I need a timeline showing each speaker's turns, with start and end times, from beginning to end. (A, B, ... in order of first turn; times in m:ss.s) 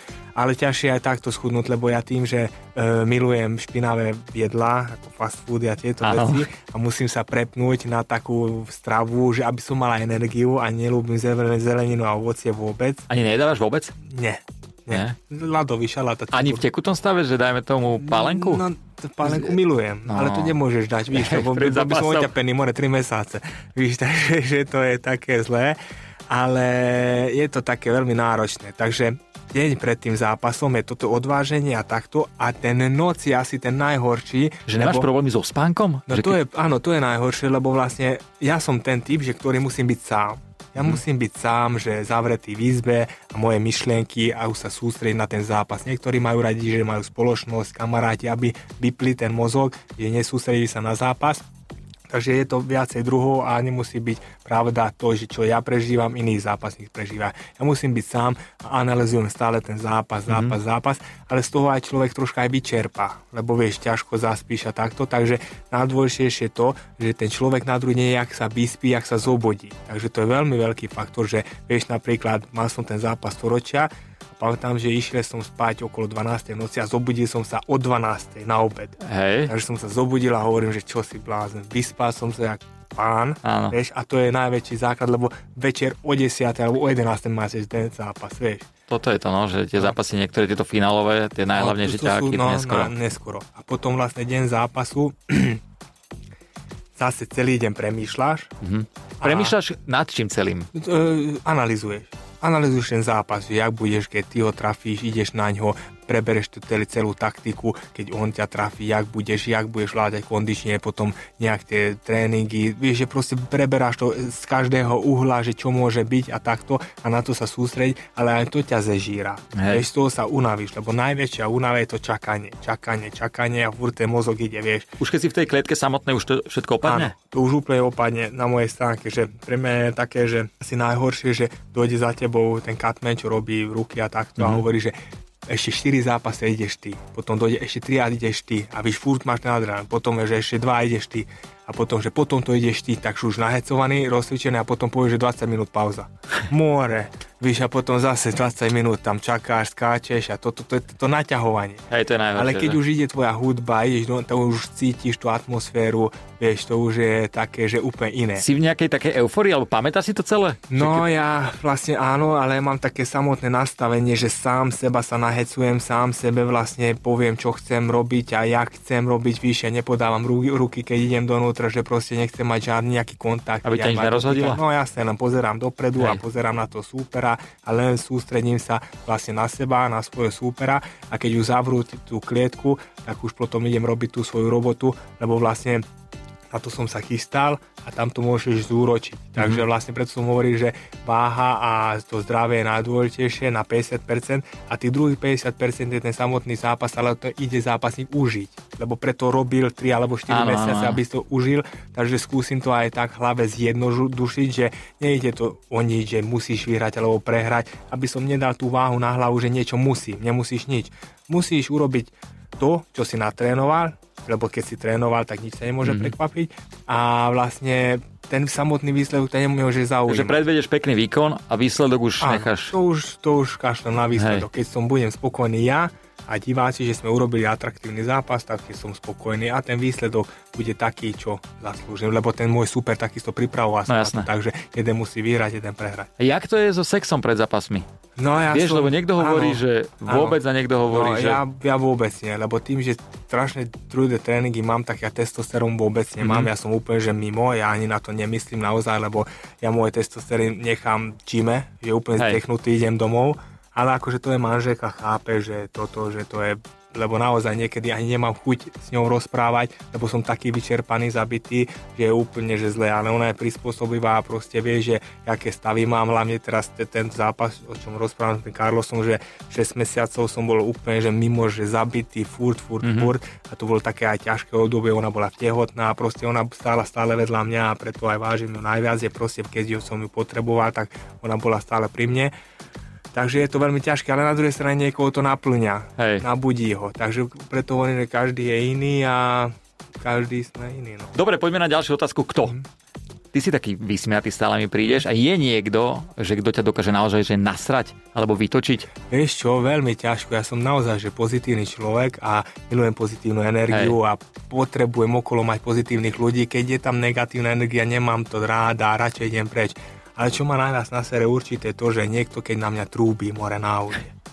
0:00.3-0:13.1 A
0:06.0-0:06.4 B
0:13.1-0:13.9 B
0:14.0-0:16.6 A
0:14.9-0:15.2 B
0:16.3-0:18.6 B
0:18.0-0:35.1 A
0:19.2-0:20.6 B
0:21.1-0:22.3 B
0:34.7-0:36.4 B
0:36.1-0:51.4 A
0:52.1-1:28.7 A
1:00.3-1:00.5 B
1:19.0-1:19.5 B
1:23.4-1:23.8 B
1:28.9-1:32.9 B
1:31.5-1:35.6 A
1:37.0-1:38.5 A
1:38.6-1:40.7 B
1:39.2-1:39.6 A
1:40.7-2:04.9 A
1:59.5-1:59.8 B
2:05.0-2:07.1 B
2:06.8-2:14.9 A
2:14.4-2:14.6 B
2:15.5-2:38.4 A
2:31.9-2:32.8 B
2:38.4-2:41.1 B
2:40.7-3:05.8 A
2:53.6-2:54.6 B
3:06.5-3:40.4 A
3:09.4-3:09.6 B
3:20.3-3:21.0 B
3:35.8-3:36.1 B
3:40.1-3:42.7 B
3:42.2-3:56.1 A
3:44.2-3:44.4 B
3:53.9-3:54.3 B
3:56.2-3:57.9 B
3:58.2-4:42.3 A
3:58.5-4:01.4 B
4:06.2-4:06.5 B
4:12.2-4:12.4 B
4:32.8-4:33.1 B
4:43.1-4:51.1 A
4:46.0-4:46.3 B
4:51.1-4:52.6 B
4:53.3-4:58.9 B
4:59.1-5:14.1 A
5:03.7-5:04.0 B